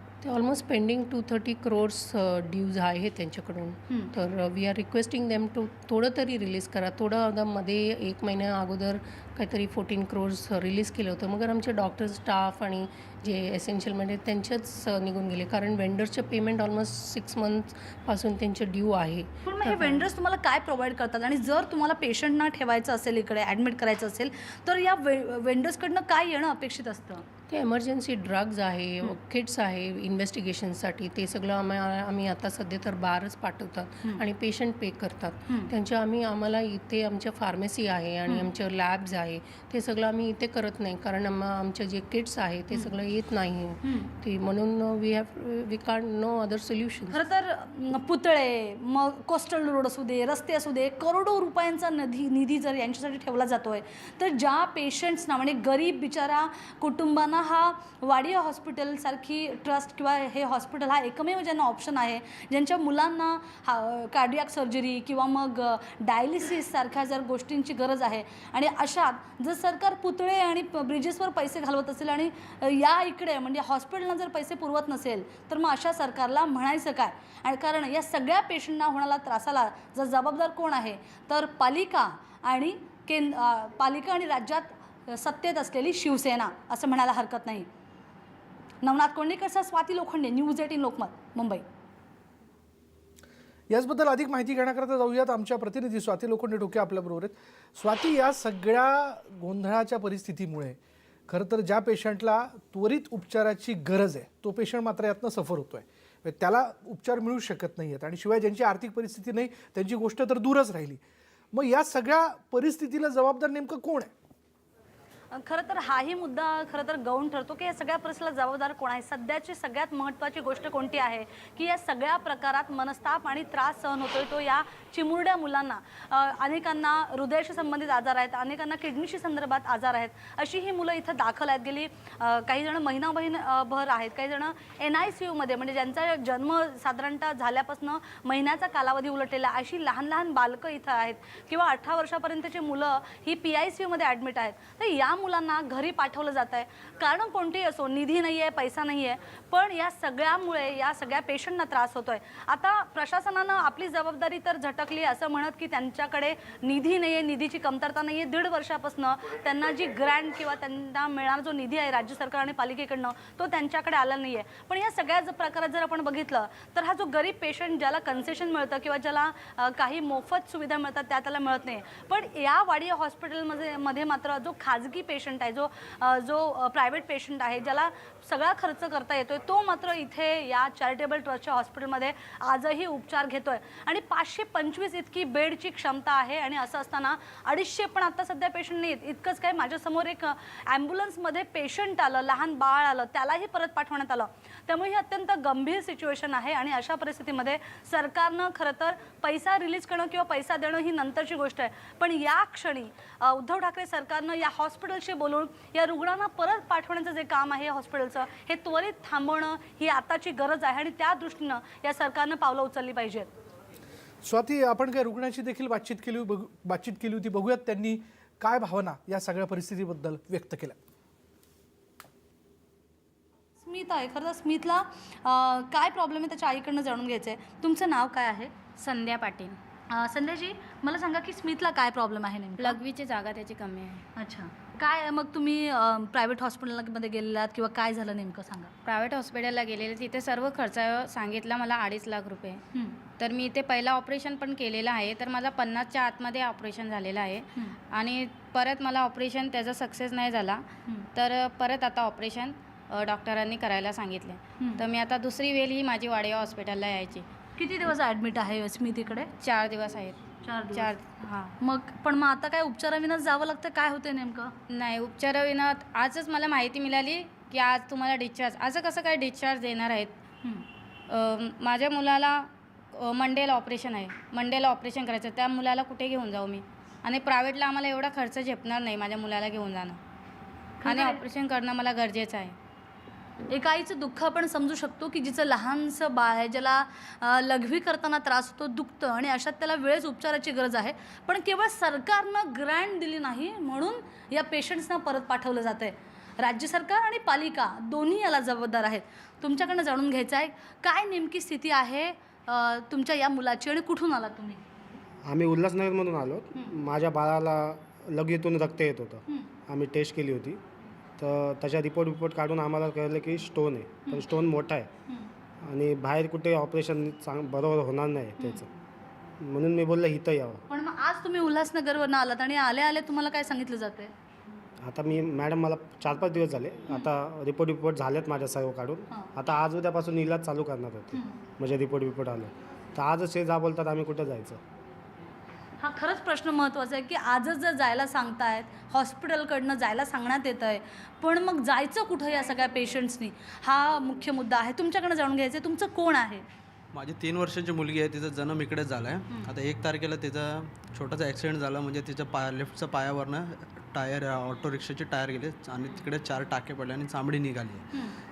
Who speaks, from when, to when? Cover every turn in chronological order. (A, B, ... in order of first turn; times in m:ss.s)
0:00.2-0:20.1 A
0:19.4-0:27.2 B
0:27.5-0:47.2 A
0:43.8-0:44.1 B
0:47.1-1:27.7 B
1:28.8-1:31.6 B
1:33.7-1:40.8 C
1:41.3-1:51.0 C
1:51.5-1:54.1 C
1:55.3-3:33.3 B
3:34.2-3:40.8 C
3:43.6-3:48.6 B
3:48.8-3:49.6 D
3:49.9-3:52.8 B
3:52.6-3:54.0 D
3:54.2-3:58.7 B
3:58.8-4:02.6 D
4:03.2-4:17.3 D
4:17.6-4:19.3 B
4:19.4-4:21.5 D
4:20.4-4:24.5 B
4:24.7-4:30.2 D
4:31.1-4:40.0 D
4:40.8-4:41.2 B
4:40.9-4:42.6 D
4:43.5-5:04.6 B
5:05.3-5:10.6 E
5:11.2-5:14.9 E
5:15.6-5:18.7 E
5:19.4-5:20.6 E
5:20.7-5:24.1 B
5:24.8-5:34.6 E
5:35.8-5:46.4 B
5:46.9-5:57.8 F